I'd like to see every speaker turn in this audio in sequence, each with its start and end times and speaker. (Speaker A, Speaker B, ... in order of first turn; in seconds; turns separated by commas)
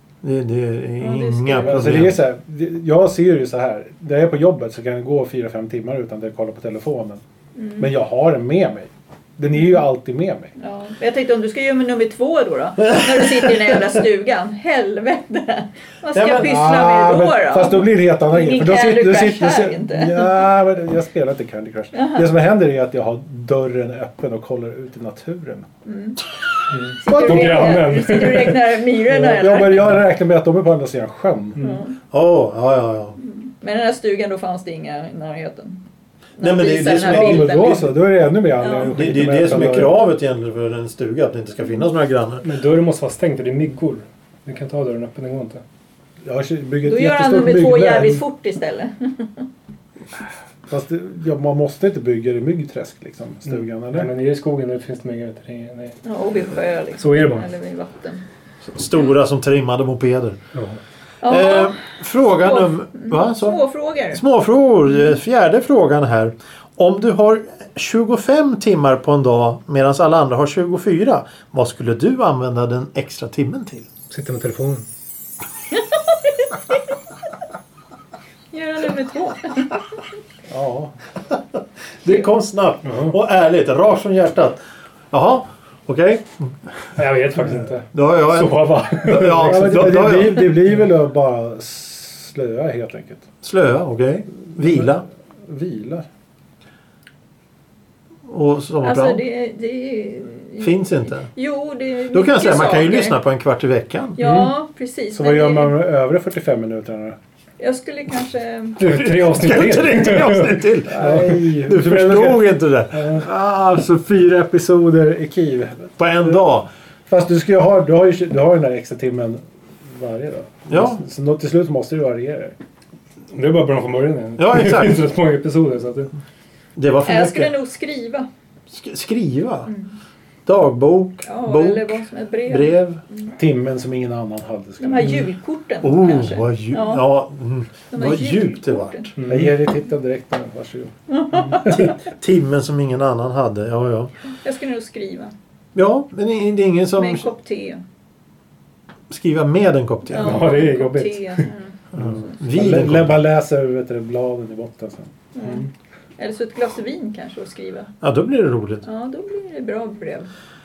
Speaker A: 0.2-2.2, Speaker B: 1.0-1.9, Speaker C: 1.7-7.2, Speaker B: 7.6-7.9, Speaker C: 7.8-10.5, Speaker B: 10.6-20.4, Speaker A: 12.8-13.7, Speaker A: 16.1-16.5, Speaker C: 16.4-25.7, Speaker B: 21.9-22.3, Speaker B: 25.9-26.2, Speaker D: 26.7-28.8, Speaker B: 27.0-30.0, Speaker C: 27.1-27.9, Speaker C: 29.1-31.6, Speaker D: 31.6-31.8, Speaker B: 31.6-32.0, Speaker A: 32.0-33.2, Speaker B: 33.2-35.8, Speaker B: 36.4-37.9, Speaker A: 36.4-37.8, Speaker C: 36.8-40.0, Speaker B: 38.6-38.9, Speaker A: 38.8-42.4, Speaker D: 42.4-45.6, Speaker C: 46.2-48.2, Speaker B: 46.8-49.5, Speaker C: 50.7-54.1, Speaker D: 53.5-56.0, Speaker B: 56.0-58.3, Speaker D: 57.0-57.5, Speaker A: 58.6-60.4, Speaker D: 60.5-60.8, Speaker B: 61.2-61.8, Speaker A: 61.2-63.6, Speaker B: 62.4-64.2, Speaker A: 64.1-73.9, Speaker D: 74.1-74.9, Speaker B: 75.7-76.8, Speaker B: 78.5-79.8, Speaker C: 80.5-80.9, Speaker A: 81.3-86.5, Speaker D: 82.8-83.1, Speaker D: 87.0-89.9, Speaker A: 87.9-90.6, Speaker C: 89.3-93.2, Speaker A: 93.4-95.0, Speaker C: 94.6-94.9, Speaker C: 95.5-96.0, Speaker A: 98.3-99.2, Speaker B: 98.8-103.2, Speaker A: 100.6-101.3, Speaker A: 102.1-104.2, Speaker B: 104.2-105.8, Speaker D: 104.2-104.5, Speaker C: 105.1-107.2, Speaker B: 107.6-108.8, Speaker D: 108.8-111.6, Speaker A: 108.9-113.2, Speaker C: 110.8-112.5, Speaker C: 113.0-116.4, Speaker A: 116.0-116.7, Speaker C: 117.1-122.6, Speaker A: 120.7-121.0, Speaker D: 123.3-126.1, Speaker A: 124.4-125.0, Speaker A: 126.8-127.5, Speaker B: 127.1-128.3, Speaker A: 128.7-129.7, Speaker B: 129.7-130.0, Speaker A: 130.5-133.0, Speaker B: 131.2-133.3, Speaker C: 133.4-135.3, Speaker B: 134.8-137.1, Speaker A: 135.8-139.2, Speaker B: 137.9-139.1, Speaker D: 139.2-139.6, Speaker C: 139.3-140.9, Speaker B: 141.1-142.0, Speaker C: 141.5-141.9, Speaker A: 141.6-144.1, Speaker B: 144.4-145.3, Speaker A: 145.8-147.3, Speaker B: 147.0-147.8, Speaker A: 149.1-150.4, Speaker B: 150.1-151.9, Speaker D: 150.2-151.5, Speaker A: 151.9-153.2, Speaker C: 152.0-155.1, Speaker B: 155.3-157.9, Speaker A: 158.0-158.8, Speaker B: 158.8-160.3